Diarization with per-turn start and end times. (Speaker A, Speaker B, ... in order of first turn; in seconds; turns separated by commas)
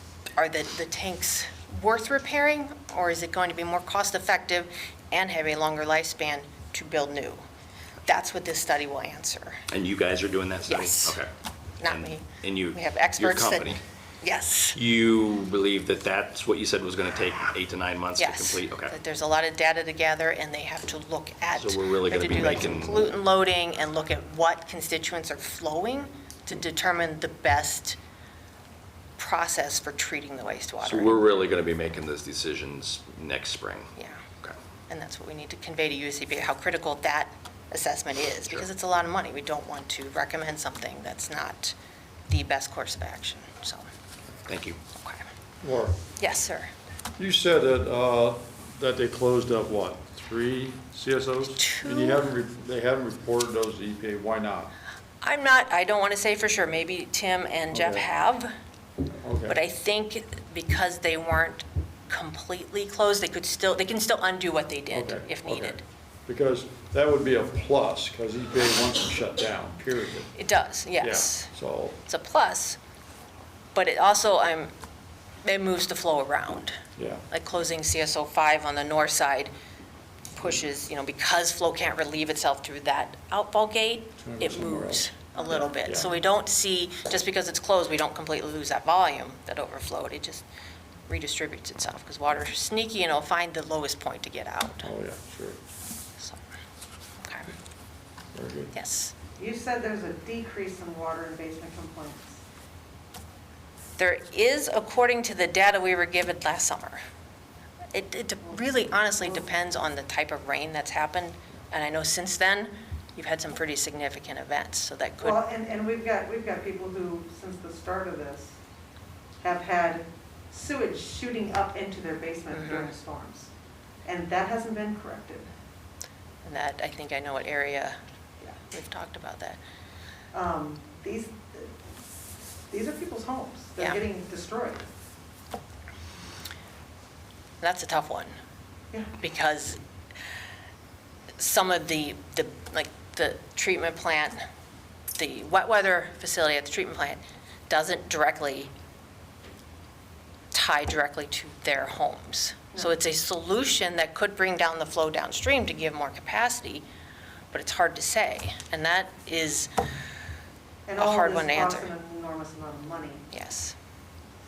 Speaker A: 0.4-7.4, Speaker A: 8.1-9.6, Speaker B: 9.7-11.3, Speaker A: 10.7-11.2, Speaker A: 11.8-14.8, Speaker B: 11.8-13.8, Speaker B: 14.7-18.9, Speaker A: 18.2-28.0, Speaker B: 21.5-23.1, Speaker A: 29.2-31.2, Speaker B: 30.8-33.9, Speaker A: 34.9-41.8, Speaker A: 42.3-43.9, Speaker B: 44.5-44.8, Speaker A: 45.0-45.2, Speaker C: 45.6-46.0, Speaker A: 46.2-46.7, Speaker C: 47.2-54.7, Speaker A: 51.6-52.2, Speaker A: 55.2-58.5, Speaker C: 57.7-58.0, Speaker C: 59.2-59.6, Speaker A: 59.5-65.8, Speaker C: 64.9-70.3, Speaker A: 70.3-71.5, Speaker C: 71.0-72.0, Speaker A: 72.1-72.8, Speaker A: 73.7-74.7, Speaker A: 75.4-79.5, Speaker C: 77.0-77.2, Speaker A: 80.3-90.5, Speaker C: 84.2-86.1, Speaker A: 91.1-94.9, Speaker C: 94.8-95.6, Speaker A: 97.2-97.5, Speaker C: 98.3-98.7, Speaker A: 98.7-99.1, Speaker D: 99.3-102.4, Speaker A: 104.0-107.0, Speaker A: 107.9-115.4, Speaker D: 115.2-118.6, Speaker D: 119.4-123.5, Speaker A: 122.5-122.9, Speaker D: 124.0-125.5, Speaker A: 126.4-128.0, Speaker A: 128.6-129.6, Speaker D: 130.3-131.7, Speaker D: 132.7-134.9, Speaker A: 137.6-138.3, Speaker A: 139.2-139.8, Speaker A: 141.4-144.4, Speaker A: 145.1-148.7, Speaker A: 150.5-156.8, Speaker A: 157.5-159.7, Speaker D: 160.9-163.2, Speaker A: 161.0-161.9, Speaker A: 163.3-163.7